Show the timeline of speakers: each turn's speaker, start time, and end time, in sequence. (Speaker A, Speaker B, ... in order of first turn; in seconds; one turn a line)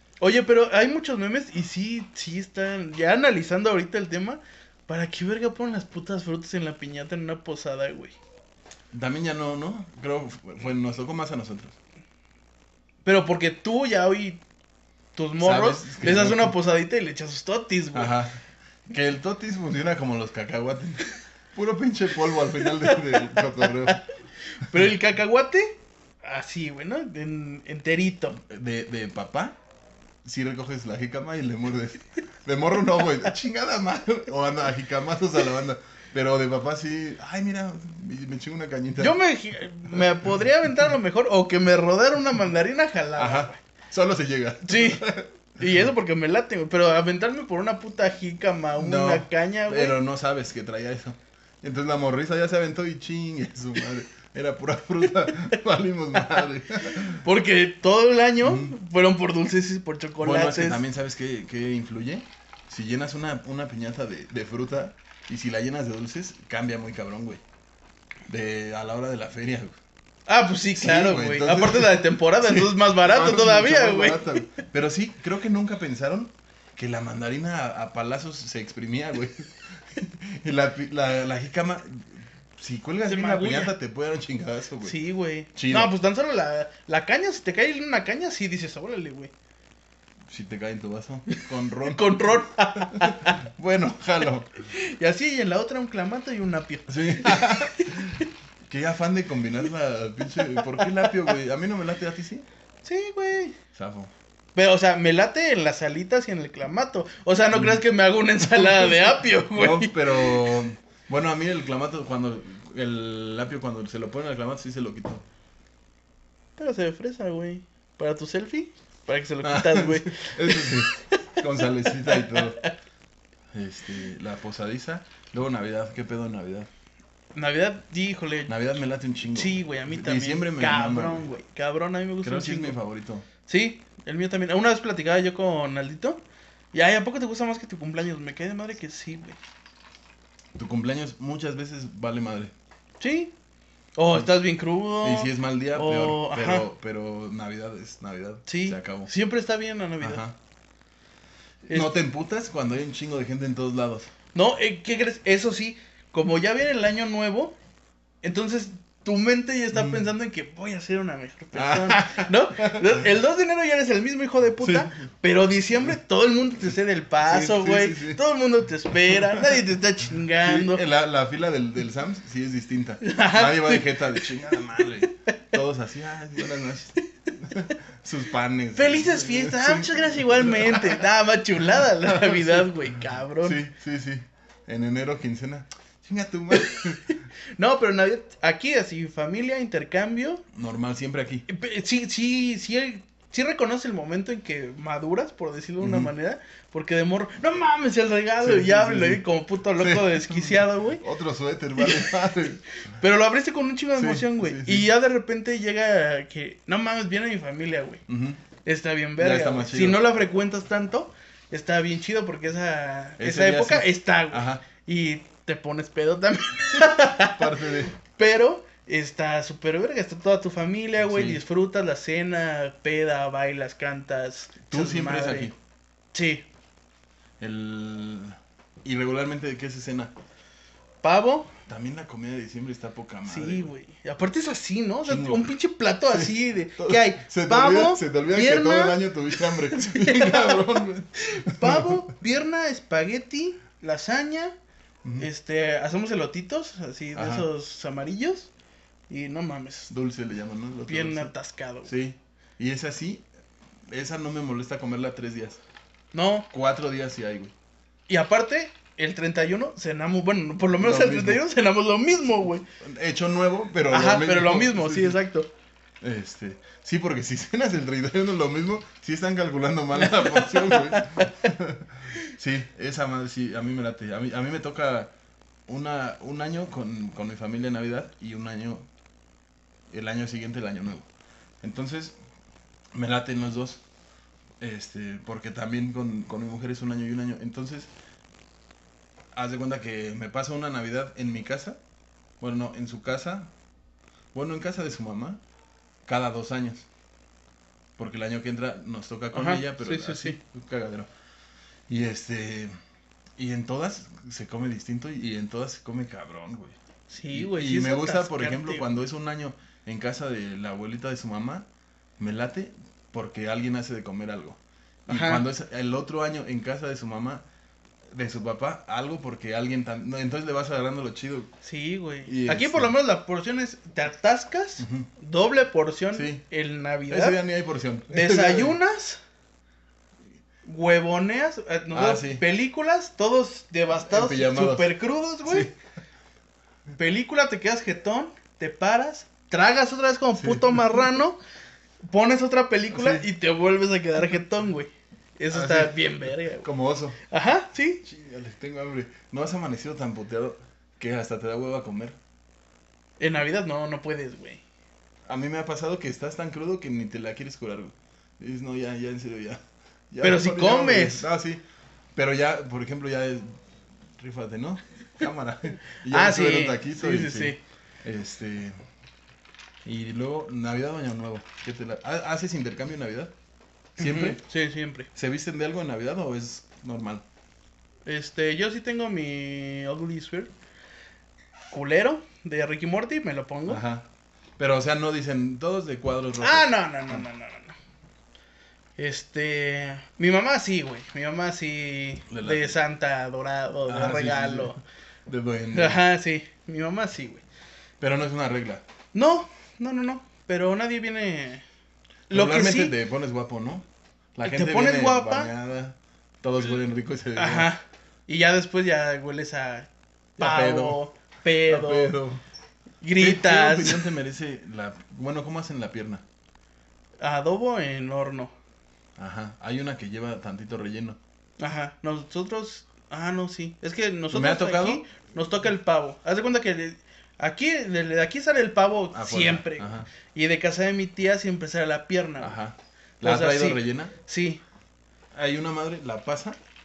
Speaker A: 0.2-8.2
Speaker B: 8.9-11.8
Speaker A: 13.1-14.4
Speaker A: 15.2-18.1
Speaker B: 15.4-16.6
Speaker B: 17.9-24.0
Speaker A: 22.8-24.0
Speaker A: 24.6-28.4
Speaker B: 28.3-29.6
Speaker B: 30.2-39.2
Speaker A: 39.0-43.6
Speaker B: 43.2-45.3
Speaker A: 44.7-50.0
Speaker B: 48.8-57.2
Speaker A: 57.1-60.8
Speaker B: 58.4-58.7
Speaker B: 60.2-67.4
Speaker B: 68.3-69.8
Speaker A: 70.3-74.6
Speaker B: 70.8-85.0
Speaker A: 83.0-83.7
Speaker A: 84.8-89.3
Speaker B: 85.5-85.9
Speaker B: 90.3-94.5
Speaker A: 91.3-93.4
Speaker A: 94.7-98.2
Speaker B: 96.9-102.5
Speaker A: 100.6-100.8
Speaker A: 102.8-103.6
Speaker B: 103.7-104.1
Speaker A: 104.5-110.5
Speaker B: 107.5-107.8
Speaker B: 108.6-109.0
Speaker B: 109.5-115.2
Speaker A: 116.6-121.1
Speaker B: 119.4-122.6
Speaker A: 122.1-122.7
Speaker B: 123.5-126.7
Speaker A: 127.3-128.5
Speaker B: 128.5-131.3
Speaker A: 129.3-132.8
Speaker B: 132.2-133.3
Speaker A: 133.5-136.2
Speaker A: 136.7-139.4
Speaker B: 140.6-142.5
Speaker A: 143.0-143.3
Speaker A: 143.9-146.7
Speaker B: 145.0-149.1
Speaker A: 148.5-150.2
Speaker B: 150.0-150.4
Speaker A: 151.7-151.9
Speaker B: 151.7-154.1
Speaker A: 154.3-157.6
Speaker A: 158.2-170.8
Speaker B: 159.7-160.1
Speaker B: 161.5-163.0
Speaker B: 164.6-165.1
Speaker B: 167.2-168.2
Speaker B: 169.1-169.6
Speaker B: 170.4-181.1
Speaker A: 173.0-174.2
Speaker A: 178.8-183.6
Speaker B: 181.8-182.7
Speaker B: 183.4-187.1
Speaker A: 186.5-186.8
Speaker A: 187.6-190.4
Speaker B: 190.5-191.5
Speaker A: 191.5-201.0
Speaker B: 195.8-196.1
Speaker B: 198.4-202.6
Speaker A: 201.8-202.1
Speaker A: 202.9-208.0
Speaker B: 204.0-204.9
Speaker B: 208.1-208.4
Speaker A: 208.7-225.5
Speaker B: 209.2-210.1
Speaker B: 213.2-214.7
Speaker B: 216.7-217.9
Speaker B: 221.0-221.4
Speaker B: 224.7-225.6
Speaker A: 226.1-226.4
Speaker B: 227.4-230.1
Speaker A: 231.0-231.5
Speaker B: 231.7-233.7
Speaker A: 233.3-240.6
Speaker B: 235.1-235.5
Speaker B: 236.1-242.1
Speaker A: 241.2-244.6
Speaker B: 245.0-245.3
Speaker A: 245.2-248.5
Speaker B: 247.2-247.5
Speaker A: 249.1-249.9
Speaker B: 249.9-251.3
Speaker A: 250.9-251.9
Speaker B: 251.8-253.3
Speaker B: 253.9-255.6
Speaker A: 256.1-256.5
Speaker B: 256.5-257.5
Speaker A: 258.1-262.7
Speaker B: 260.8-261.4
Speaker B: 262.8-265.2
Speaker A: 263.9-265.5
Speaker B: 266.0-275.1
Speaker A: 270.0-271.3
Speaker B: 275.7-278.9
Speaker B: 279.9-281.1
Speaker B: 281.6-282.2
Speaker B: 282.9-283.8
Speaker B: 284.6-287.9
Speaker B: 289.3-291.8
Speaker B: 292.4-293.5
Speaker B: 294.3-295.4
Speaker B: 296.1-296.9
Speaker B: 298.0-301.1
Speaker A: 299.3-300.4
Speaker B: 301.9-302.7
Speaker B: 303.4-306.8
Speaker A: 307.1-308.9
Speaker B: 307.3-311.7
Speaker B: 312.2-317.4
Speaker A: 315.1-315.4
Speaker B: 318.1-321.5
Speaker A: 321.6-327.4
Speaker B: 322.2-322.9
Speaker B: 324.8-325.1
Speaker B: 326.1-326.4
Speaker B: 327.1-328.8
Speaker A: 328.1-329.2
Speaker A: 330.6-335.7
Speaker B: 331.9-332.4
Speaker B: 334.1-335.7
Speaker A: 337.0-341.4
Speaker B: 340.4-341.1
Speaker A: 342.0-346.7
Speaker B: 342.9-343.3
Speaker B: 345.5-347.2
Speaker A: 347.3-348.0
Speaker B: 348.0-352.2
Speaker A: 353.2-354.6
Speaker B: 355.3-361.6
Speaker A: 360.2-361.3
Speaker B: 362.1-363.6
Speaker B: 364.2-368.8
Speaker A: 366.1-367.6
Speaker B: 369.8-373.3
Speaker B: 374.0-374.4
Speaker A: 374.0-375.1
Speaker B: 375.1-377.2
Speaker A: 378.1-380.5
Speaker A: 381.7-383.8
Speaker B: 383.7-384.1
Speaker B: 384.6-387.2
Speaker A: 386.4-387.8
Speaker A: 389.0-394.8
Speaker B: 392.3-392.8
Speaker B: 393.9-396.0
Speaker A: 395.7-397.4
Speaker B: 398.0-398.8
Speaker A: 399.1-401.6
Speaker A: 402.3-402.9
Speaker B: 402.3-407.7
Speaker A: 404.4-405.5
Speaker A: 407.4-412.2
Speaker B: 410.4-411.0
Speaker B: 411.7-412.4
Speaker A: 413.0-414.1
Speaker B: 413.2-416.2
Speaker A: 417.2-418.5
Speaker B: 419.2-421.2
Speaker A: 421.6-432.6
Speaker B: 424.3-425.1
Speaker B: 429.1-430.1
Speaker B: 432.4-434.1
Speaker A: 433.2-434.6
Speaker B: 435.3-436.6